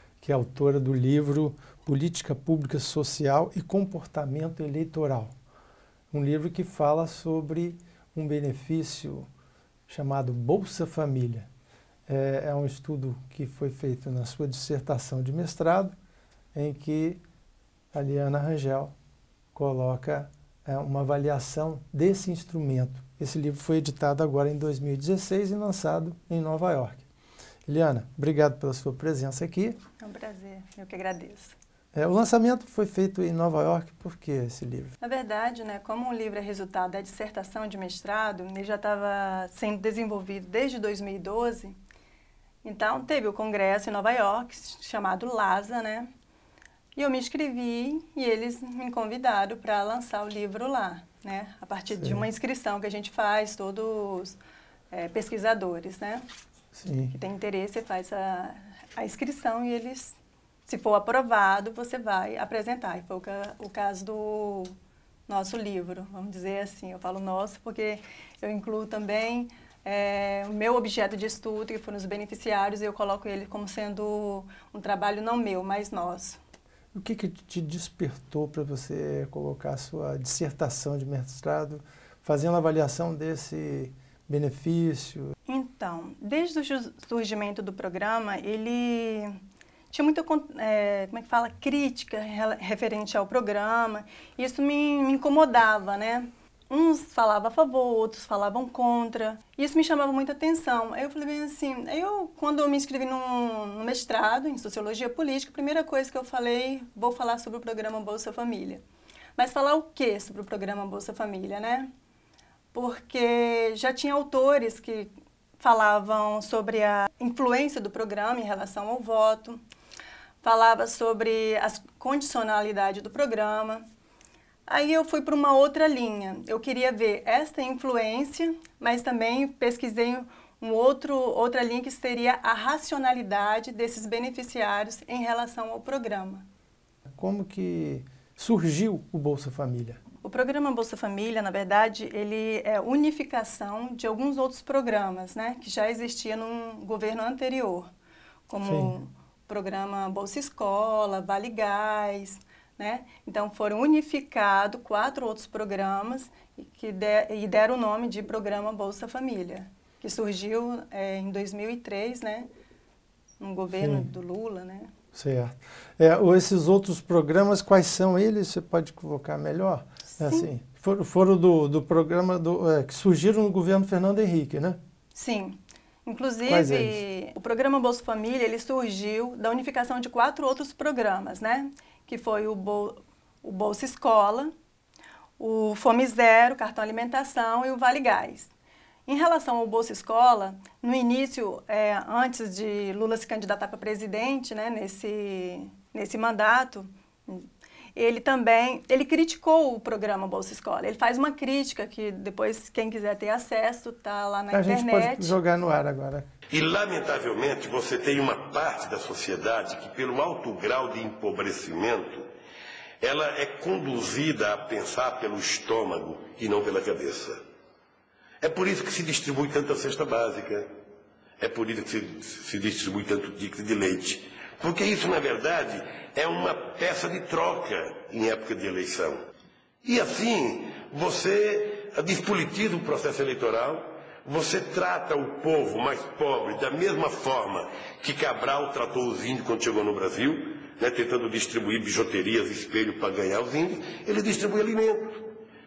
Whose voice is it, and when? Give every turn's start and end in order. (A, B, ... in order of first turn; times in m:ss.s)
0:00.2-0:05.3 A
0:06.1-0:09.3 A
0:09.9-0:11.5 A
0:12.1-0:16.0 A
0:16.5-0:17.2 A
0:17.9-0:18.9 A
0:19.5-0:27.0 A
0:27.6-0:29.8 A
0:30.0-0:31.5 B
0:31.9-0:34.9 A
0:35.0-0:41.8 B
0:42.6-0:46.1 B
0:46.9-0:54.4 B
0:52.0-0:52.2 A
0:54.9-0:56.2 B
0:56.7-0:57.1 A
0:57.1-1:04.7 B
1:05.3-1:16.4 B
1:16.9-1:25.3 A
1:25.4-1:29.4 B
1:29.9-1:48.8 B
1:49.4-1:51.9 B
1:52.7-1:59.6 B
2:00.4-2:03.8 B
2:04.7-2:16.4 B
2:17.2-2:20.0 A
2:20.2-2:27.9 B
2:28.5-2:42.5 B
2:28.6-2:28.9 A
2:43.4-2:44.9 B
2:43.7-2:44.1 A
2:45.1-2:54.8 A
2:50.1-2:50.5 B
2:55.1-3:04.5 B
2:56.4-2:57.0 A
3:05.4-3:08.5 B
3:09.0-3:25.3 B
3:24.5-3:26.3 A
3:26.5-3:32.2 C
3:33.0-3:37.4 C
3:38.4-3:40.7 C
3:41.4-3:49.2 C
3:49.8-4:05.2 C